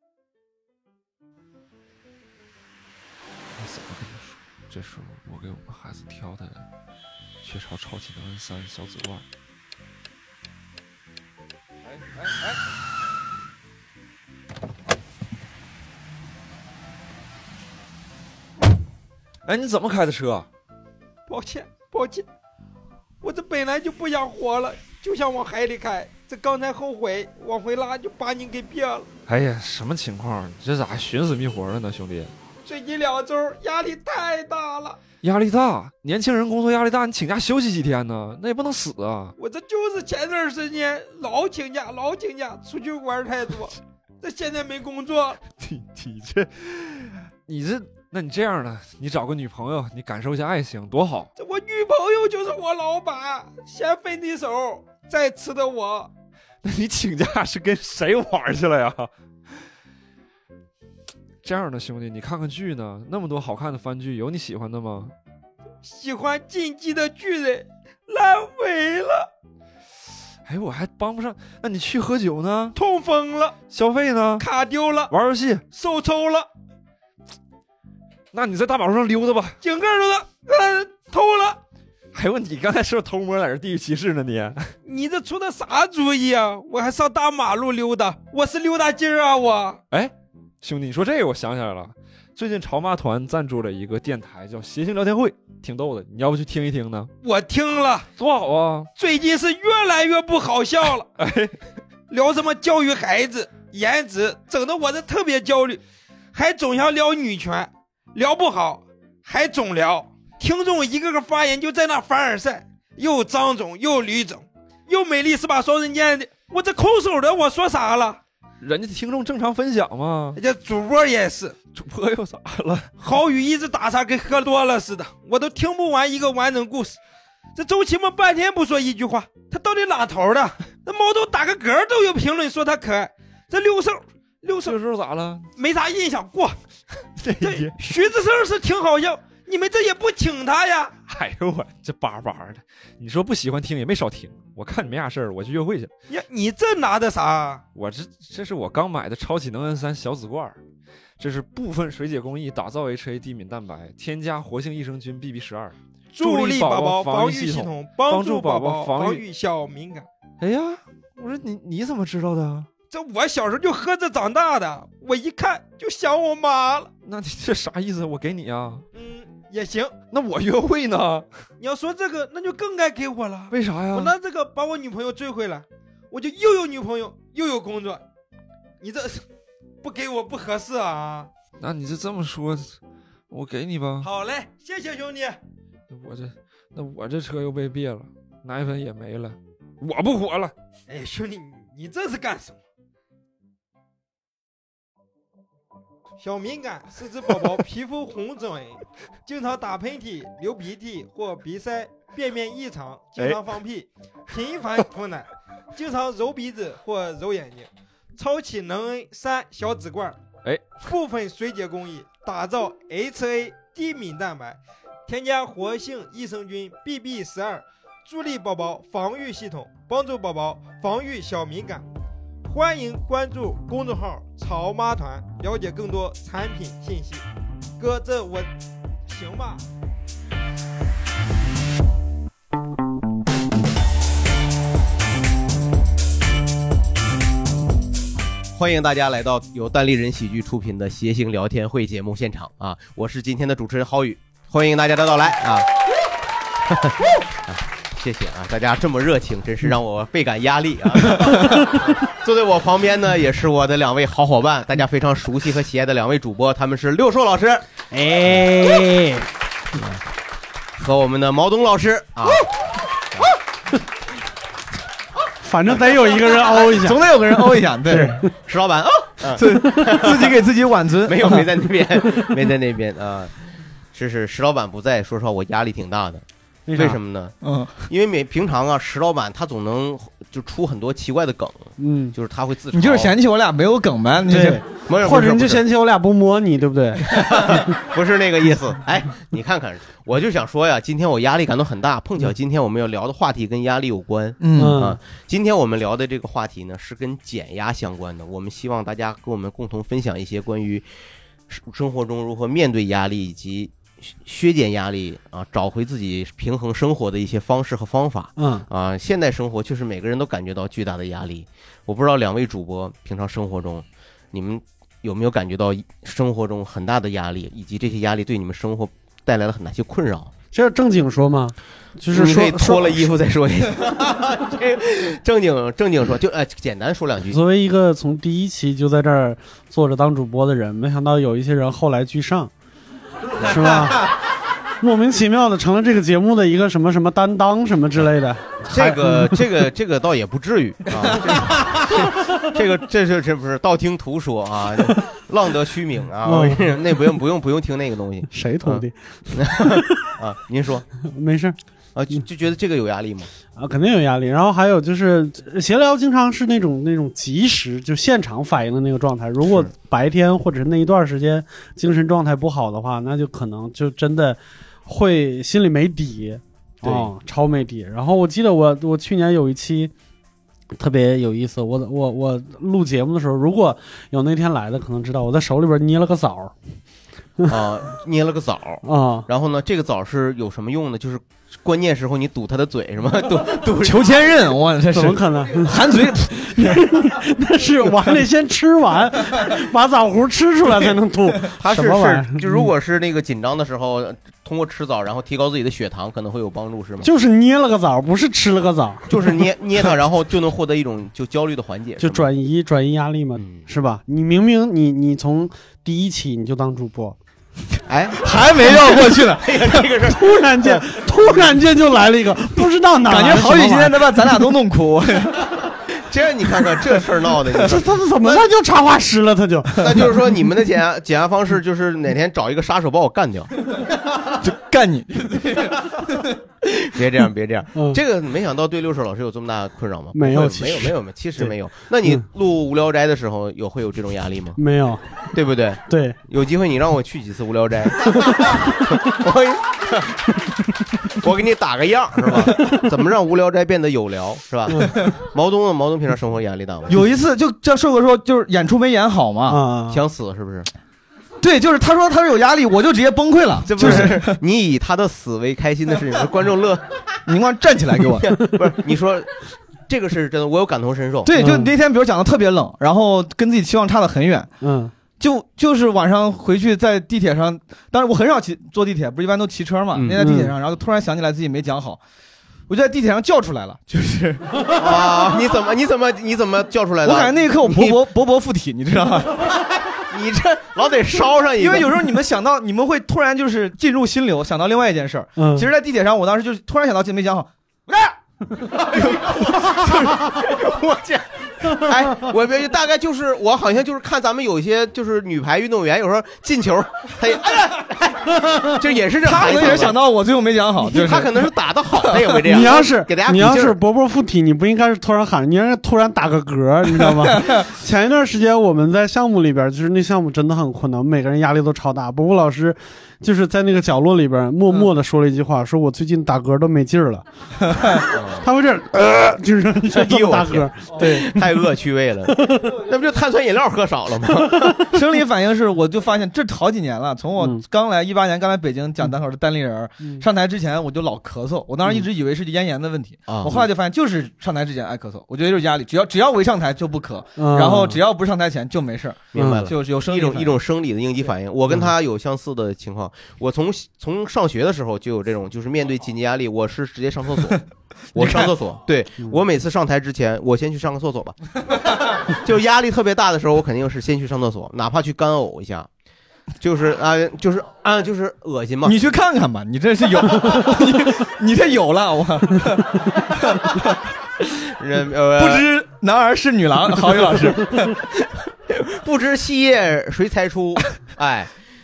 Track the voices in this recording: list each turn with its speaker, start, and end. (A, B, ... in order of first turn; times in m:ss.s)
0:03.6-0:06.6 A
0:07.4-0:09.2 A
0:11.8-0:12.6 A
0:19.4-0:20.5 A
0:21.3-0:22.2 B
0:23.2-0:29.1 B
0:29.3-0:32.3 A
0:32.6-0:35.0 B
0:35.2-0:39.3 A
0:39.4-0:45.4 B
0:45.5-0:51.3 A
0:51.4-0:56.1 B
0:56.6-0:59.1 A
1:01.4-1:05.1 A
1:05.8-1:09.3 B
1:10.4-1:12.8 A
1:12.7-1:13.5 B
1:13.7-1:14.5 A
1:14.4-1:15.1 B
1:15.1-1:15.6 A
1:15.7-1:16.5 B
1:18.3-1:19.6 A
1:19.6-1:21.6 B
1:22.1-1:24.7 A
1:24.8-1:29.8 B
1:29.9-1:37.1 A
1:37.2-1:38.1 B
1:38.2-1:38.9 A
1:39.0-1:41.0 B
1:41.2-1:41.5 A
1:42.1-1:45.8 B
1:46.3-1:58.2 B
1:58.6-2:00.4 A
2:00.4-2:01.5 B
2:01.7-2:02.9 A
2:03.0-2:07.0 B
2:07.6-2:14.7 B
2:14.6-2:15.5 A
2:15.6-2:16.6 B
2:17.2-2:17.8 A
2:17.4-2:20.9 B
2:21.1-2:25.9 A
2:26.1-2:27.6 B
2:27.7-2:30.6 A
2:31.2-2:39.2 A
2:36.1-2:40.1 B
2:40.4-2:42.7 A
2:42.9-2:46.9 B
2:47.0-2:48.8 A
2:48.9-2:49.9 B
2:50.1-2:51.2 A
2:51.6-2:58.0 B
2:53.5-2:54.1 A
2:58.8-2:59.2 B
2:59.8-3:01.3 B
3:01.6-3:02.8 A
3:03.3-3:04.1 A
3:04.0-3:05.4 B
3:05.9-3:10.5 A
3:10.9-3:12.6 B
3:16.2-3:30.2 B
3:30.8-3:41.8 B
3:42.4-3:47.2 B
3:47.8-3:48.5 B
3:49.1-3:49.6 B
3:58.6-4:05.7 C
4:06.7-4:11.5 C
4:12.0-4:17.6 C
4:17.9-4:19.3 D
4:20.8-4:22.4 C
4:25.4-4:27.0 D
4:26.6-4:28.2 E
4:27.9-4:28.3 D
4:28.4-4:30.4 C
4:29.4-4:31.5 E
4:31.0-4:33.3 C
4:33.9-4:36.2 C
4:36.7-4:37.0 D
4:36.8-4:37.4 C
4:37.4-4:37.9 E
4:37.9-4:43.2 C
4:41.8-4:42.1 D
4:42.7-4:44.6 E
4:44.3-4:47.2 D
4:44.9-4:45.6 C
4:47.1-5:00.8 C
4:54.4-4:54.8 E
4:54.5-4:55.0 D
5:01.5-5:20.3 C
5:08.4-5:08.6 D
5:20.5-5:23.0 D
5:22.1-5:27.4 C
5:27.3-5:32.5 D
5:33.4-5:34.1 D
5:34.8-5:39.4 D
5:38.6-5:50.8 C
5:46.2-5:46.8 D
5:48.3-5:48.9 D
5:51.1-5:51.6 D
5:51.9-5:53.3 C
5:53.6-6:09.9 D
5:59.4-5:59.7 C
6:06.8-6:07.1 C
6:10.8-6:16.5 D
6:17.5-6:24.2 C
6:18.8-6:19.3 D
6:23.8-6:26.9 E
6:24.9-6:32.7 D
6:31.6-6:37.1 C
6:37.0-6:39.3 D
6:39.1-6:42.3 C
6:42.0-6:47.2 D
6:43.4-6:43.7 C
6:47.9-6:51.5 C
6:48.2-6:49.8 E
6:50.0-6:54.0 D
6:53.0-6:55.5 E
6:55.9-6:58.4 C
6:57.6-6:59.8 D
6:59.8-7:03.5 C
7:04.4-7:06.2 E
7:06.9-7:14.6 C
7:07.7-7:08.0 D
7:10.1-7:11.5 D
7:14.6-7:15.2 D
7:15.3-7:20.2 C
7:15.9-7:16.2 D
7:21.2-7:26.9 C
7:26.9-7:29.6 E
7:29.5-7:30.0 D
7:29.9-7:30.7 C
7:31.4-7:34.4 E
7:33.6-7:37.0 C
7:33.8-7:34.2 D
7:37.3-7:38.3 E
7:38.3-7:41.3 C
7:41.2-7:44.5 E
7:41.4-7:41.7 D
7:44.6-7:44.9 D
7:45.2-7:52.0 E
7:50.1-7:50.5 D
7:52.7-7:54.4 E
7:54.8-7:58.0 C
7:57.0-7:59.4 E
8:00.1-8:02.0 C
8:01.6-8:08.0 E
8:05.4-8:05.7 D
8:08.9-8:09.5 C
8:08.9-8:10.1 E
8:10.0-8:20.0 C
8:19.2-8:21.4 E
8:20.8-8:23.8 C
8:22.4-8:37.2 D
8:27.1-8:27.6 E
8:37.6-8:37.9 E
8:38.1-8:38.4 C
8:38.4-8:41.5 D
8:39.9-8:44.8 C
8:44.9-9:00.6 E
8:47.4-8:47.6 D
8:53.3-8:53.6 C
8:57.4-8:58.0 D
8:59.3-9:07.6 C
8:59.4-8:59.7 D
9:08.1-9:11.4 C
9:08.2-9:08.5 E
9:12.3-9:15.9 C
9:16.6-9:19.0 C
9:18.8-9:22.9 E
9:23.4-9:23.7 E
9:24.8-9:25.7 C
9:25.4-9:27.9 E
9:28.7-9:31.5 C